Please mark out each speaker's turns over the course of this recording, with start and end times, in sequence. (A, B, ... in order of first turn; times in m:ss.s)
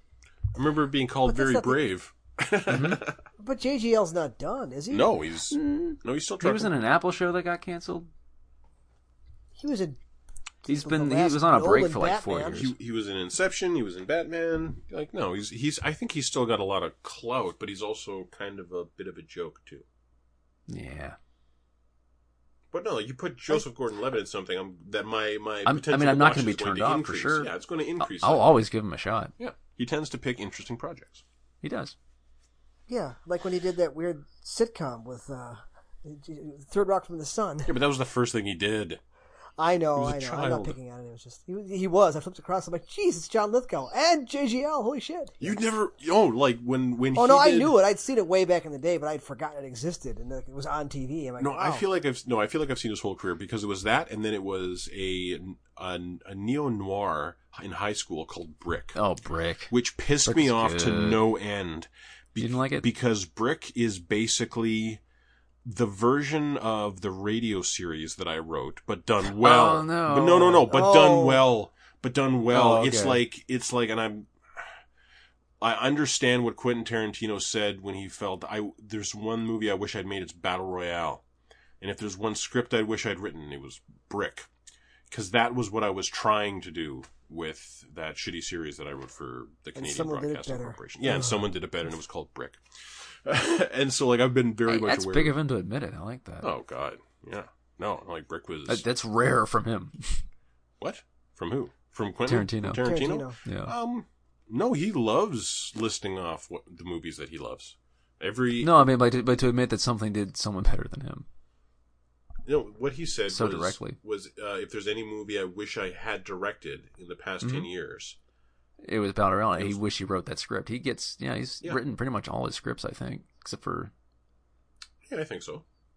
0:00.5-0:03.2 A
0:01.2-0:01.8 B
0:02.7-0:03.0 C
0:03.4-0:05.1 B
0:04.9-0:06.7 A
0:05.5-0:08.1 C
0:09.6-0:10.0 B
0:10.6-0:12.7 C
0:10.7-0:12.7 B
0:12.5-0:19.8 A
0:20.7-0:21.2 C
0:22.7-0:28.5 A
0:25.6-0:29.3 C
0:29.4-0:31.2 A
0:31.6-0:31.9 C
0:32.9-0:37.7 B
0:37.6-0:39.0 A
0:39.6-0:45.6 B
0:40.0-0:40.8 A
0:45.4-0:47.8 A
0:47.1-0:51.8 B
0:51.4-0:59.0 A
0:59.0-1:01.2 C
0:59.7-1:05.0 A
1:02.4-1:02.8 C
1:05.6-1:14.8 A
1:09.2-1:10.6 C
1:10.7-1:11.4 B
1:12.5-1:13.2 C
1:15.6-1:21.2 A
1:21.8-1:24.5 A
1:25.1-1:35.4 A
1:29.8-1:31.4 B
1:34.6-1:36.5 C
1:36.4-1:38.8 A
1:38.7-1:40.2 C
1:40.8-1:48.9 A
1:42.3-1:42.9 C
1:42.8-1:43.4 B
1:43.4-1:43.7 C
1:48.6-1:51.2 C
1:52.4-1:58.2 A
1:53.3-1:54.0 C
1:57.4-1:57.7 C
1:58.8-2:03.9 C
1:59.5-1:59.8 A
2:05.1-2:05.6 A